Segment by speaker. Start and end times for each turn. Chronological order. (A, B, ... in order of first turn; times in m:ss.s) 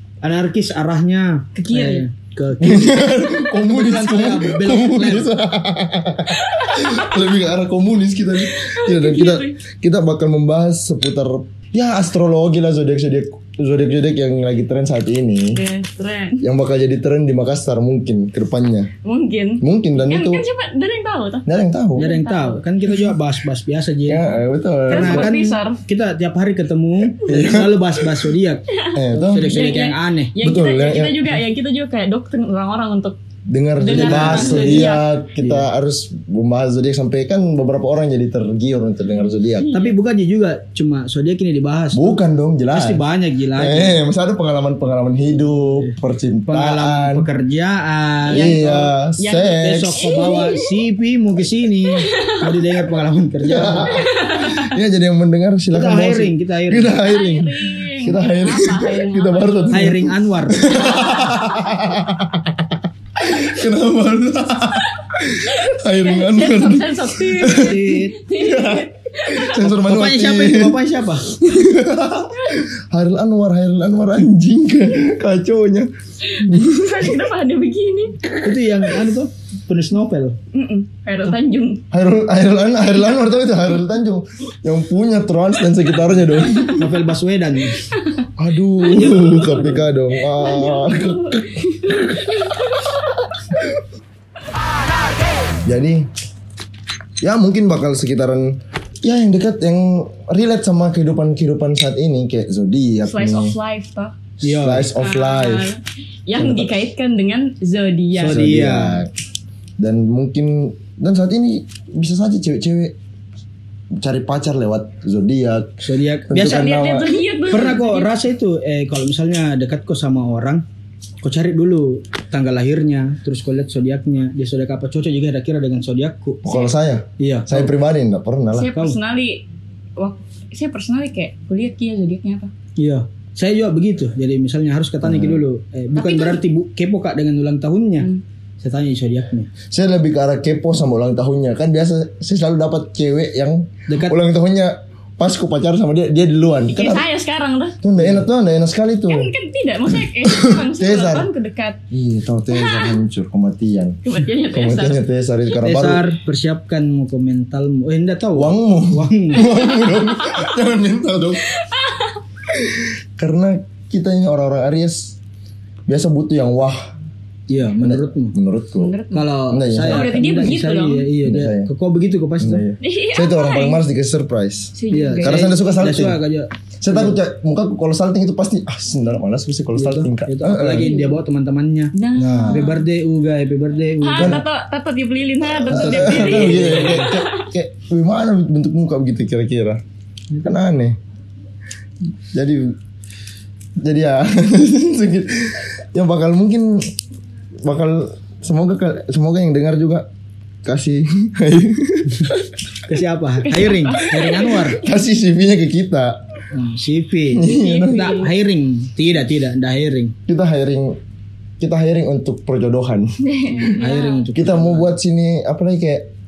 0:00.2-0:05.3 A
0:01.6-0:02.1 B
0:02.6-0:15.6 C
0:06.3-0:07.2 B
0:08.4-0:09.6 B
0:15.5-0:16.4 B
0:16.4-0:18.9 C
0:19.0-0:22.6 B
0:19.6-0:20.4 C
0:21.5-0:22.0 C
0:22.0-0:24.3 A
0:24.1-0:25.3 C
0:24.9-0:25.8 B
0:24.9-0:30.3 A
0:27.2-0:28.2 C
0:28.7-0:33.2 B
0:29.0-0:29.8 C
0:30.4-0:31.4 C
0:33.5-0:39.7 C
0:33.8-0:35.1 B
0:33.8-0:34.9 A
0:35.4-0:35.7 A
0:39.2-0:40.0 B
0:39.7-0:42.2 A
0:41.9-0:47.3 C
0:42.7-0:44.0 A
0:45.6-0:45.9 A
0:46.5-0:48.8 A
0:48.3-0:50.2 C
0:48.3-0:50.7 B
0:49.6-0:54.0 A
0:52.0-0:52.4 B
0:53.4-1:17.2 C
0:53.9-0:54.7 B
0:55.7-0:57.0 A
0:56.9-1:00.0 B
0:59.7-1:00.9 A
1:00.7-1:01.4 B
1:05.4-1:09.6 B
1:07.6-1:08.2 A
1:09.6-1:11.3 A
1:12.4-1:12.6 B
1:16.3-1:18.2 B
1:18.4-1:20.4 A
1:20.5-1:21.8 B
1:21.9-1:27.0 C
1:26.7-1:27.9 A
1:28.4-1:32.4 C
1:28.9-1:29.9 A
1:30.3-1:33.4 B
1:33.5-1:33.8 C
1:35.7-1:36.1 C
1:37.2-1:43.6 C
1:43.1-1:44.2 B
1:44.4-1:44.9 A
1:44.4-1:45.7 C
1:45.0-1:48.4 B
1:46.4-1:46.8 C
1:48.2-1:49.1 A
1:48.2-1:49.1 C
1:49.8-1:53.0 C
1:54.0-1:57.3 C
1:55.8-1:56.7 A
1:56.4-1:58.1 B
1:57.5-2:00.6 A
2:01.2-2:06.4 A
2:06.4-2:08.7 C
2:07.2-2:07.7 A
2:08.5-2:09.4 B
2:10.0-2:12.5 B
2:12.8-2:18.1 A
2:15.0-2:15.5 C
2:15.9-2:16.4 B
2:18.6-2:19.5 A
2:19.7-2:27.1 C
2:23.9-2:24.2 A
2:26.7-2:27.8 B
2:27.8-2:29.3 C
2:28.0-2:28.3 A
2:29.1-2:31.8 B
2:30.2-2:31.3 C
2:31.9-2:36.0 C
2:32.5-2:33.0 B
2:34.0-2:35.6 B
2:35.6-2:39.5 A
2:38.4-2:41.5 C
2:39.4-2:40.6 B
2:41.4-2:42.2 B
2:42.5-2:45.2 C
2:45.9-2:46.9 C
2:47.5-2:48.4 A
2:47.8-2:50.2 C
2:48.8-2:49.3 B
2:49.1-2:52.6 A
2:49.9-2:51.1 B
2:51.2-2:51.7 C
2:52.4-2:56.2 C
2:52.8-2:53.8 B
2:54.7-2:55.6 B
2:54.9-2:57.2 A
2:56.8-3:01.0 C
2:59.8-3:04.4 A
3:00.8-3:01.2 B
3:01.9-3:02.9 B
3:02.2-3:02.7 C
3:04.0-3:07.5 B
3:04.2-3:04.4 C
3:05.6-3:09.8 C
3:05.7-3:07.2 A
3:10.4-3:11.0 C
3:12.3-3:12.8 C
3:13.8-3:16.9 C
3:17.6-3:20.1 C
3:20.6-3:22.6 C
3:22.9-3:24.8 A
3:23.4-3:24.8 B
3:24.6-3:26.2 C
3:26.5-3:30.2 A
3:27.3-3:28.3 C
3:27.4-3:28.3 B
3:30.3-3:31.0 C
3:31.6-3:33.7 C
3:33.2-3:34.2 B
3:33.7-3:35.0 A
3:34.3-3:36.1 C